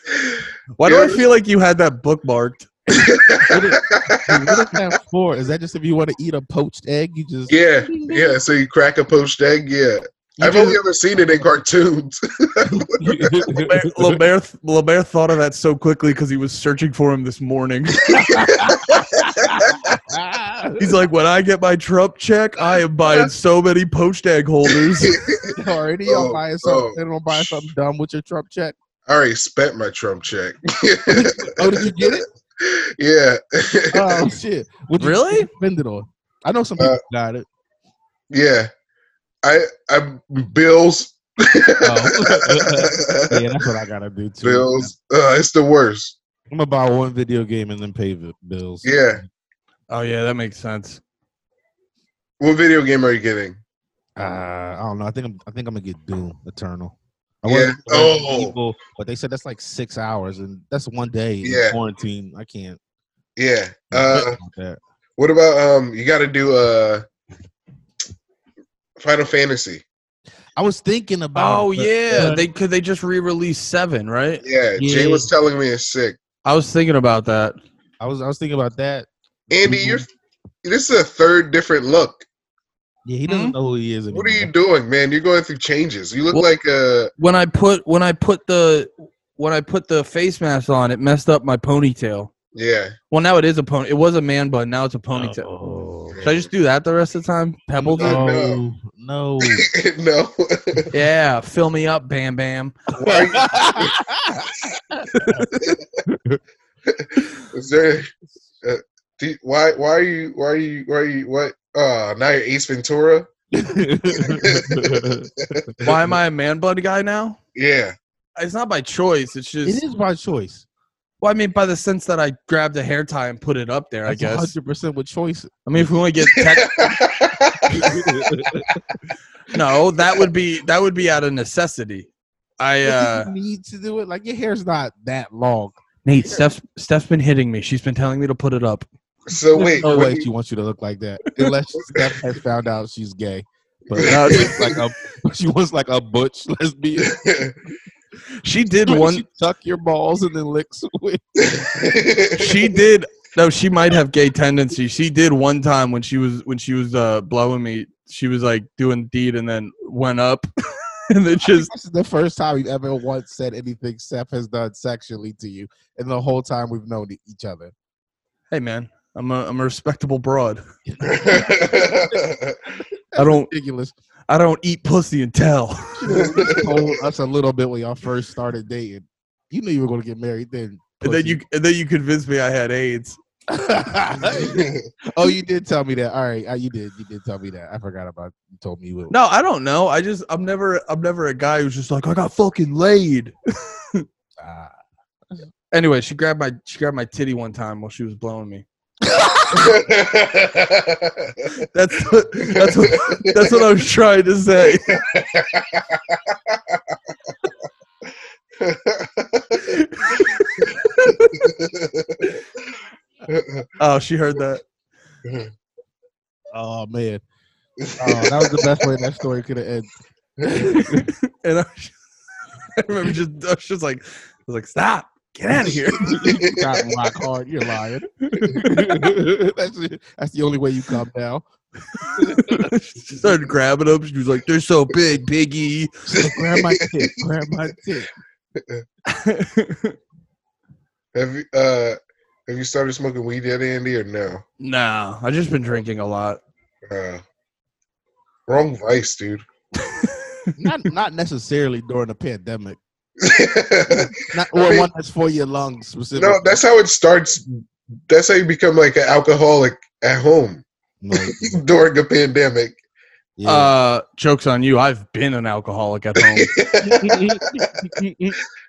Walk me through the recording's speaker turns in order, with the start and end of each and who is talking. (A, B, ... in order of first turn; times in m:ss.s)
0:00.2-0:01.2 A
0:00.8-0:02.7 B
0:03.0-0:04.7 A
0:03.4-0:08.4 C
0:07.5-0:13.5 A
0:10.4-0:10.8 B
0:12.7-0:14.2 C
0:13.6-0:18.4 B
0:18.1-0:20.9 C
0:18.3-0:20.0 A
0:20.8-0:25.2 B
0:25.0-0:27.7 A
0:25.6-0:28.8 C
0:29.1-0:34.3 A
0:31.1-0:32.2 C
0:33.9-0:37.5 C
0:35.0-0:35.5 B
0:38.3-0:38.7 A
0:39.4-0:43.4 A
0:41.8-0:44.9 C
0:44.4-0:46.2 A
0:46.5-0:49.0 C
0:48.8-0:49.2 A
0:49.9-0:51.0 B
0:52.4-0:53.6 A
0:54.2-1:02.8 C
0:57.5-0:58.5 A
1:01.4-1:01.8 A
1:03.4-1:04.4 A
1:03.9-1:04.8 C
1:05.2-1:07.0 A
1:09.0-1:09.8 A
1:10.6-1:12.5 C
1:11.4-1:14.4 B
1:14.4-1:16.2 A
1:14.8-1:15.3 C
1:16.4-1:17.6 B
1:18.0-1:20.0 C
1:19.5-1:20.1 A
1:20.6-1:22.2 A
1:23.1-1:24.5 C
1:23.3-1:23.6 B
1:24.1-1:27.1 A
1:27.2-1:32.3 B
1:32.5-1:32.9 A
1:33.1-1:35.5 B
1:35.1-1:36.2 C
1:36.1-1:36.4 A
1:36.2-1:38.2 B
1:37.8-1:39.7 C
1:38.0-1:38.6 A
1:39.4-1:40.9 A
1:40.9-1:42.8 B
1:43.0-1:44.0 A
1:43.0-1:45.4 C
1:45.1-1:45.7 B
1:46.1-1:46.4 C
1:46.9-1:48.1 A
1:48.6-1:53.3 A
1:53.5-1:55.7 C
1:54.2-1:56.0 A
1:55.8-1:57.4 B
1:57.6-1:57.9 A
1:58.4-1:59.8 B
1:59.6-2:00.6 C
2:01.2-2:04.5 B
2:04.1-2:05.9 C
2:05.7-2:06.7 B
2:06.3-2:08.1 A
2:07.7-2:08.8 C
2:09.5-2:12.1 B
2:12.6-2:13.3 B
2:12.8-2:15.8 C
2:16.0-2:18.9 B
2:19.3-2:20.3 A
2:19.6-2:20.2 B
2:19.8-2:27.2 C
2:21.8-2:22.1 A
2:24.0-2:24.8 B
2:24.0-2:24.6 A
2:27.0-2:27.6 A
2:28.4-2:29.2 B
2:28.8-2:31.4 C
2:31.4-2:32.7 A
2:32.4-2:40.5 B
2:41.1-2:41.7 B
2:41.4-2:47.7 C
2:48.5-2:50.6 B
2:50.9-2:52.2 C
2:51.0-2:52.6 A
2:53.1-2:53.9 C
2:53.2-2:53.5 B
2:54.3-2:56.3 B
2:56.0-3:01.4 C
2:56.1-2:57.0 A
3:01.0-3:03.2 B
3:03.5-3:09.1 C
3:04.3-3:04.8 A
3:09.1-3:13.4 B
3:14.4-3:14.8 C
3:15.7-3:18.6 B
3:19.0-3:19.8 C
3:19.5-3:21.6 A
3:21.7-3:25.0 B
3:22.4-3:23.6 A
3:24.9-3:26.8 A
3:28.6-3:29.7 A
3:29.6-3:31.5 B
3:31.3-3:32.4 A
3:33.3-3:33.7 A
3:33.8-3:34.6 B
3:35.2-3:35.5 A
3:36.5-3:37.2 C
3:37.8-3:39.0 A
3:38.0-3:39.9 C
3:40.4-3:41.1 C
3:40.7-3:42.0 B
3:42.8-3:46.2 B
3:46.0-3:51.4 C
3:46.2-3:46.7 A
3:48.2-3:48.9 B
3:52.0-3:52.7 C
3:52.2-3:55.9 B
3:56.1-3:58.1 C
3:56.2-3:57.1 A
3:59.1-4:00.0 B
4:01.1-4:04.4 A
4:04.6-4:06.4 B
4:06.9-4:07.2 A
4:08.5-4:09.4 A
4:10.0-4:10.6 B
4:10.6-4:12.8 C
4:13.2-4:14.9 A
4:13.9-4:16.6 C
4:16.2-4:17.5 A
4:18.1-4:22.8 A
4:21.0-4:21.6 C
4:23.4-4:23.7 C
4:23.4-4:26.5 B
4:26.2-4:27.9 A
4:26.8-4:28.4 C